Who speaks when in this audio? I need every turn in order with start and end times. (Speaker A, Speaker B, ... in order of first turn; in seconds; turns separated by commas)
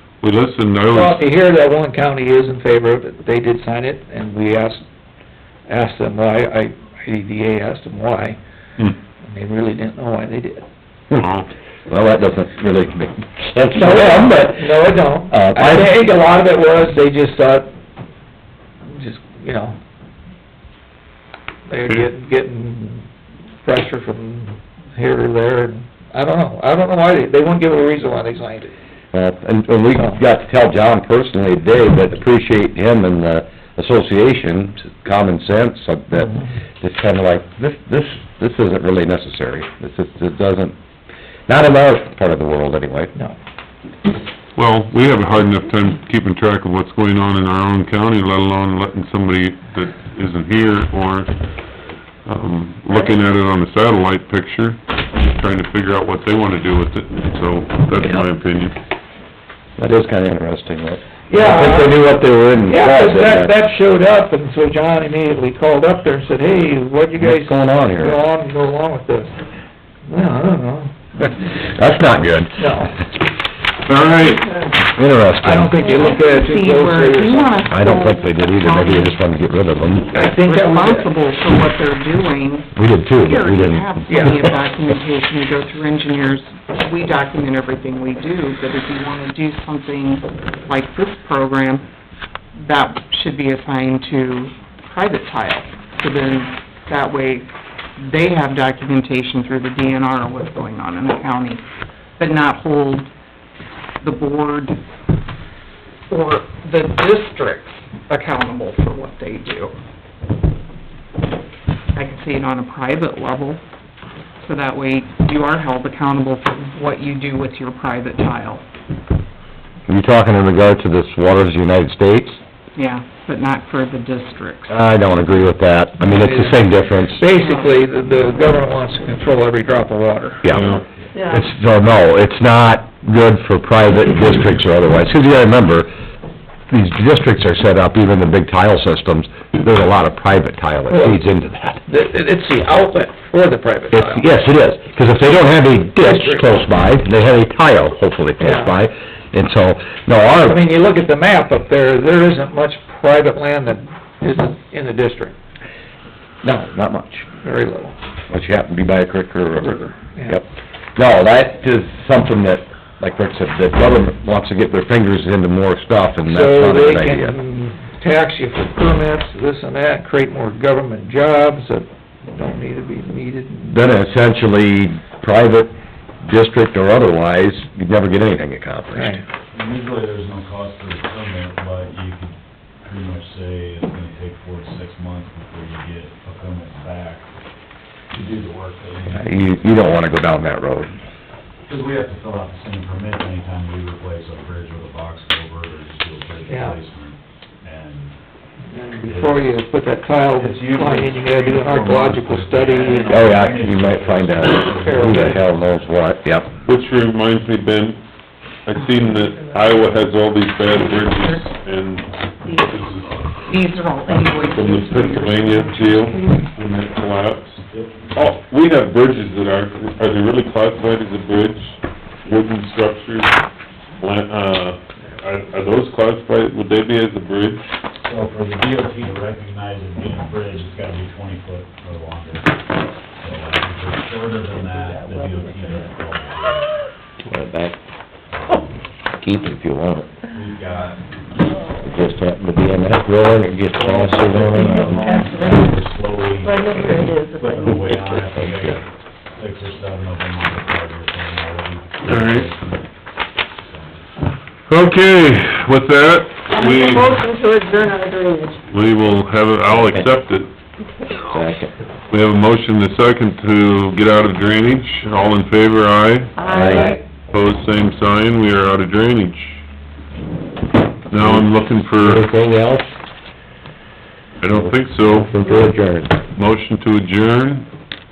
Speaker A: 0.2-1.2, Speaker B: 0.9-4.8, Speaker B: 5.7-8.4, Speaker B: 9.2-10.6, Speaker A: 11.1-11.5, Speaker C: 11.9-16.1, Speaker B: 13.7-17.7, Speaker B: 18.9-19.8, Speaker B: 21.7-23.1, Speaker B: 23.6-28.7, Speaker C: 29.1-40.7, Speaker C: 41.5-43.1, Speaker A: 44.5-51.3, Speaker A: 52.2-58.8, Speaker C: 59.8-63.5, Speaker B: 61.3-69.4, Speaker C: 67.1-68.2, Speaker B: 70.1-71.5, Speaker C: 71.6-72.7, Speaker B: 72.5-73.0, Speaker A: 73.8-74.6, Speaker C: 74.9-76.0, Speaker B: 75.4-77.7, Speaker D: 75.7-79.2, Speaker C: 77.7-80.2, Speaker B: 80.1-81.1, Speaker D: 80.1-91.8, Speaker C: 82.7-84.5, Speaker B: 84.1-84.4, Speaker D: 92.6-101.6, Speaker D: 102.2-103.1, Speaker D: 104.0-104.8, Speaker D: 106.1-109.7, Speaker D: 111.9-113.6, Speaker D: 114.4-118.6, Speaker C: 119.9-122.4, Speaker D: 122.7-124.8, Speaker C: 124.7-127.2, Speaker B: 126.0-130.5, Speaker D: 127.3-127.7, Speaker C: 130.4-135.9, Speaker A: 130.5-130.8, Speaker E: 131.1-131.5, Speaker C: 136.7-141.8, Speaker B: 140.9-141.2, Speaker B: 141.8-144.3, Speaker C: 143.9-150.7, Speaker B: 146.0-146.5, Speaker B: 148.4-148.7, Speaker B: 150.5-155.3, Speaker C: 156.4-157.3, Speaker B: 157.4-157.9, Speaker C: 158.3-167.4, Speaker B: 159.6-160.4, Speaker B: 166.2-173.8, Speaker C: 173.7-179.2, Speaker B: 178.9-179.2, Speaker F: 179.5-187.3, Speaker F: 188.1-189.9, Speaker C: 189.1-190.9, Speaker F: 191.7-198.2, Speaker B: 196.5-196.8, Speaker B: 198.7-203.3, Speaker F: 199.0-199.5, Speaker F: 200.3-205.7, Speaker C: 203.1-206.5, Speaker B: 204.7-205.4, Speaker A: 206.6-208.0, Speaker A: 208.7-213.3, Speaker D: 210.9-211.3, Speaker D: 213.4-216.4, Speaker A: 214.5-217.6, Speaker F: 217.7-218.3, Speaker A: 218.1-223.4, Speaker A: 224.0-227.7, Speaker F: 228.0-236.7, Speaker C: 237.2-237.8, Speaker F: 238.3-238.8, Speaker C: 239.2-240.1, Speaker F: 240.3-241.2, Speaker C: 241.8-245.2, Speaker F: 243.8-252.9, Speaker E: 244.4-245.7, Speaker E: 246.4-248.2, Speaker C: 248.4-248.8, Speaker A: 252.0-252.5, Speaker F: 253.6-254.0, Speaker A: 254.7-257.2, Speaker E: 256.5-258.6, Speaker A: 258.7-260.5, Speaker C: 259.7-260.1, Speaker C: 261.2-261.7, Speaker A: 262.1-269.6, Speaker E: 266.4-267.0, Speaker C: 266.4-267.0, Speaker A: 271.1-272.3, Speaker C: 271.1-272.9, Speaker A: 274.4-275.4, Speaker C: 274.5-276.2, Speaker A: 276.3-277.7